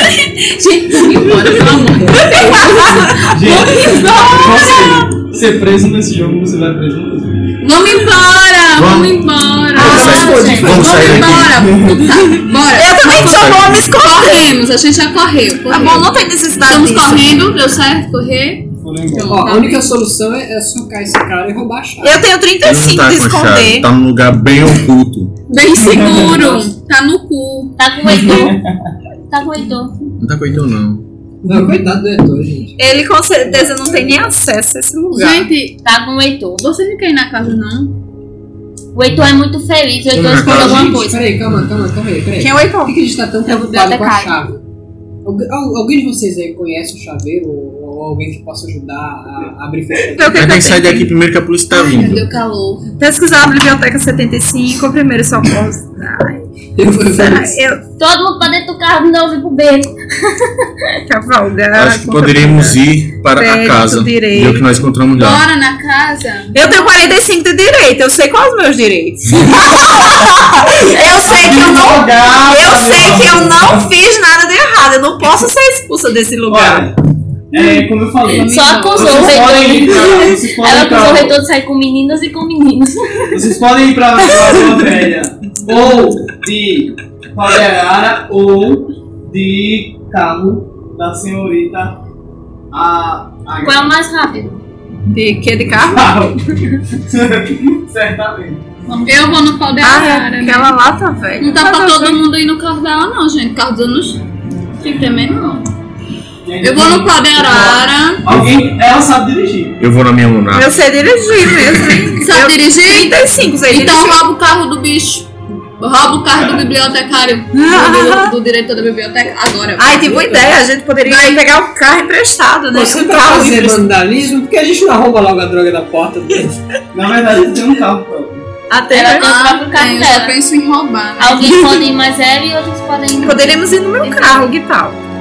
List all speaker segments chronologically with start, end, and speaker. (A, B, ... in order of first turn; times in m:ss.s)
0:00.6-0:04.4 A
0:00.9-0:05.0 B
0:03.3-0:07.5 C
0:07.6-0:16.0 A
0:08.8-0:09.2 D
0:09.7-0:11.6 D
0:09.8-0:10.7 B
0:09.8-0:12.2 C
0:12.7-0:14.5 B
0:13.0-0:14.0 D
0:15.7-0:17.3 B
0:16.6-0:19.9 A
0:18.8-0:19.6 C
0:19.3-0:22.2 E
0:22.0-0:23.9 B
0:22.6-0:25.4 D
0:25.5-0:27.8 A
0:25.8-0:26.7 C
0:27.8-0:28.6 F
0:28.0-0:28.9 C
0:29.2-0:30.0 F
0:30.2-0:31.0 D
0:31.4-0:32.8 E
0:32.8-0:35.5 B
0:33.5-0:34.1 E
0:35.1-0:35.8 A
0:35.8-0:36.7 F
0:36.6-0:38.0 A
0:38.9-0:41.2 F
0:39.1-0:39.4 E
0:40.1-0:44.6 E
0:40.2-0:40.9 D
0:42.4-0:43.0 B
0:43.5-0:43.8 F
0:43.8-0:44.3 B
0:45.2-0:50.6 E
0:50.1-0:51.1 B
0:50.3-0:52.3 D
0:51.7-0:52.9 A
0:53.0-0:56.4 B
0:56.8-0:57.6 E
0:57.2-0:57.8 B
0:58.0-1:00.7 F
1:01.1-1:02.8 B
1:01.7-1:05.4 D
1:03.3-1:04.6 B
1:05.2-1:06.9 A
1:06.5-1:16.9 B
1:10.8-1:11.3 F
1:11.2-1:13.9 C
1:16.5-1:17.0 C
1:17.5-1:21.4 C
1:18.3-1:19.4 A
1:18.3-1:23.4 F
1:23.3-1:32.0 C
1:24.4-1:24.7 B
1:32.7-1:34.0 C
1:33.6-1:34.6 F
1:35.1-1:36.1 B
1:35.7-1:38.7 C
1:38.9-1:39.4 F
1:39.1-1:40.8 A
1:39.8-1:42.2 B
1:41.4-1:44.2 A
1:44.8-1:45.6 A
1:46.4-1:49.8 C
1:46.6-1:48.3 A
1:48.3-1:48.6 D
1:49.8-1:50.7 D
1:50.5-1:54.2 B
1:52.2-2:00.5 A
1:57.5-1:58.3 B
1:59.8-2:03.9 B
2:01.0-2:01.4 A
2:02.7-2:06.6 E
2:06.9-2:08.5 C
2:08.7-2:09.3 B
2:08.9-2:10.4 F
2:09.2-2:11.8 A
2:11.2-2:14.5 F
2:13.2-2:15.0 B